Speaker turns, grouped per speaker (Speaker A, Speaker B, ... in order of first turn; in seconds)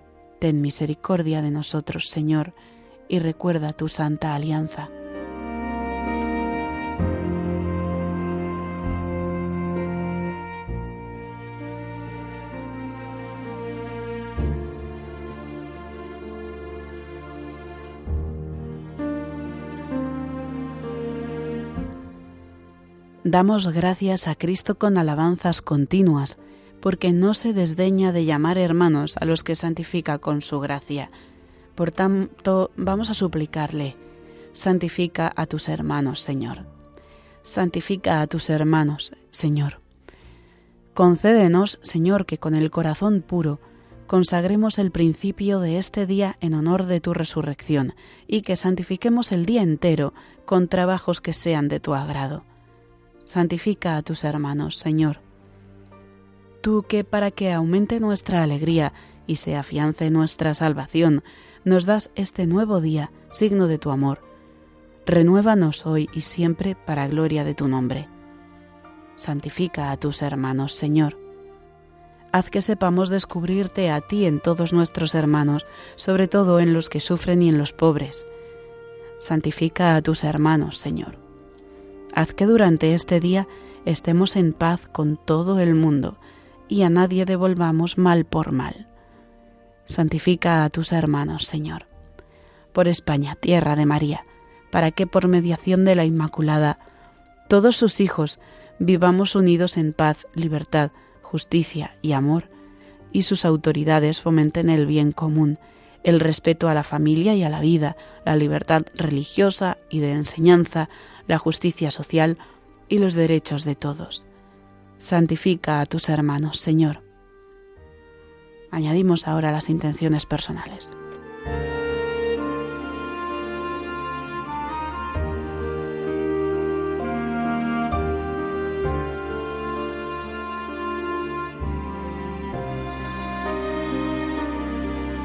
Speaker A: 0.4-2.5, 3.1-4.9, 23.2-31.1, 31.8-34.0, 34.5-36.6, 37.4-39.8, 40.9-52.4, 53.2-55.2, 56.6-64.2, 65.0-68.1, 69.2-71.2, 72.3-78.3, 79.2-81.2, 82.2-88.9, 89.8-91.9, 92.7-96.8, 97.5-102.5, 103.1-114.2, 115.0-117.0, 118.7-120.9